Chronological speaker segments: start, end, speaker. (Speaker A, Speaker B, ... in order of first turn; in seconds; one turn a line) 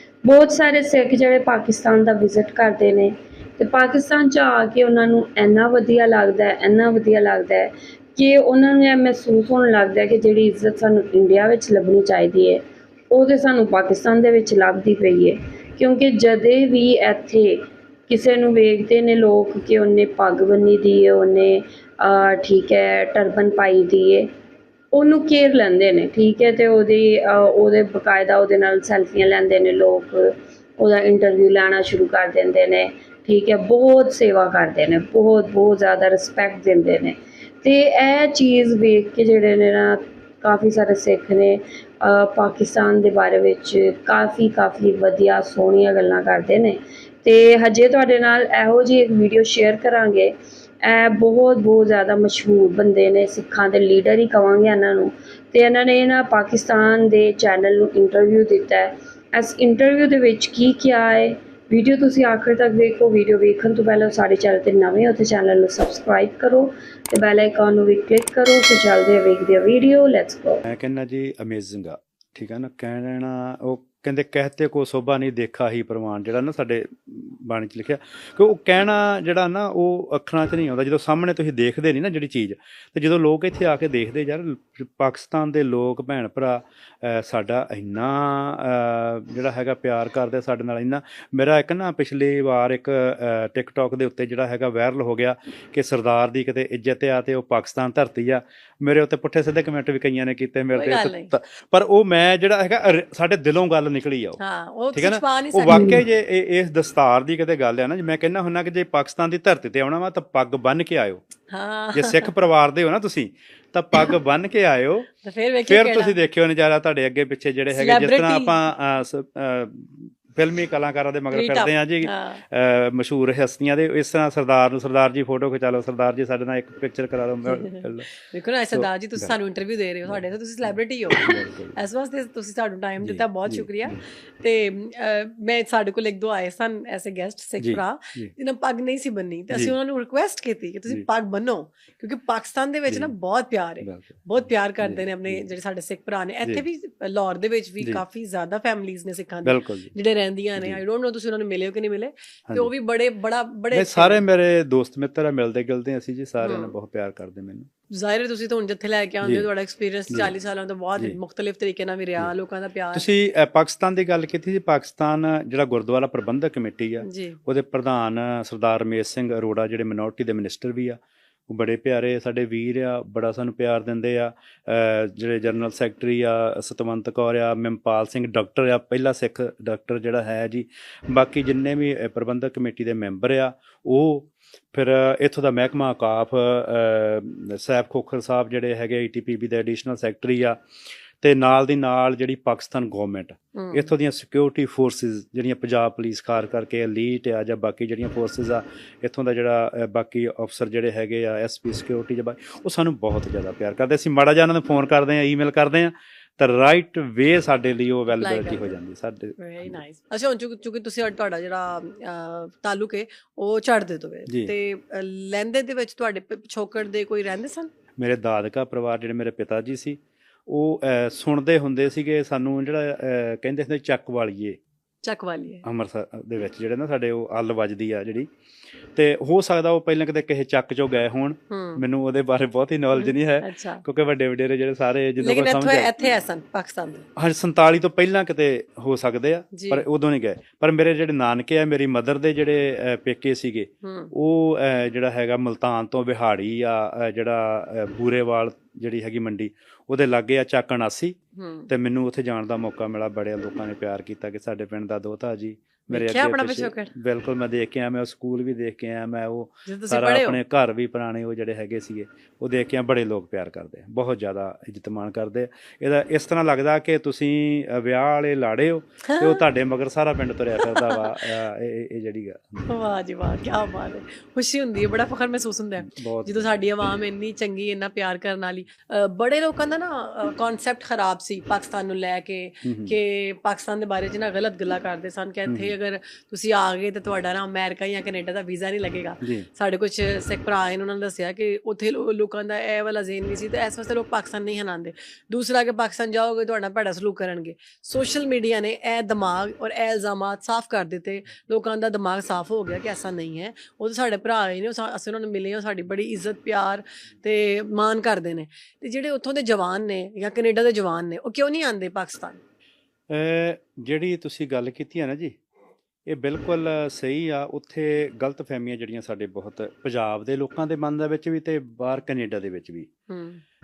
Speaker A: 0.2-24.3
Speaker A: 24.9-70.6
Speaker B: 70.6-104.4
Speaker C: 100.7-101.3
Speaker C: 104.4-105.8
Speaker B: 104.9-111.2
Speaker A: 105.7-106.0
Speaker C: 111.5-112.3
Speaker B: 111.9-115.1
Speaker C: 115.2-116.2
Speaker B: 115.7-128.1
Speaker C: 117.7-118.6
Speaker C: 121.3-122.4
Speaker C: 127.5-154.2
Speaker B: 128.7-129.3
Speaker B: 130.1-131.8
Speaker B: 133.0-134.0
Speaker B: 137.6-138.3
Speaker B: 142.9-143.1
Speaker B: 143.8-144.2
Speaker B: 144.8-145.5
Speaker B: 149.4-149.9
Speaker B: 153.7-157.7
Speaker C: 156.4-156.8
Speaker C: 157.9-163.1
Speaker B: 162.9-171.0
Speaker C: 167.0-167.4
Speaker B: 171.5-190.6
Speaker B: 191.2-209.8
Speaker C: 193.5-193.9
Speaker C: 208.1-208.8
Speaker C: 209.4-217.7
Speaker B: 214.3-214.5
Speaker B: 218.0-224.6
Speaker C: 225.0-225.6
Speaker B: 225.6-228.3
Speaker B: 228.9-235.9
Speaker C: 231.5-231.8
Speaker C: 232.9-233.8
Speaker C: 235.2-237.1
Speaker B: 237.2-251.2
Speaker C: 239.5-239.8
Speaker C: 243.8-244.1
Speaker C: 251.3-251.7
Speaker B: 251.7-272.7
Speaker C: 255.9-256.9
Speaker C: 259.7-260.4
Speaker C: 269.1-269.4
Speaker C: 270.6-271.3
Speaker C: 272.6-312.4
Speaker B: 275.9-276.7
Speaker B: 282.6-282.9
Speaker B: 285.4-285.7
Speaker B: 313.1-315.4
Speaker B: 316.1-322.9
Speaker C: 323.1-323.4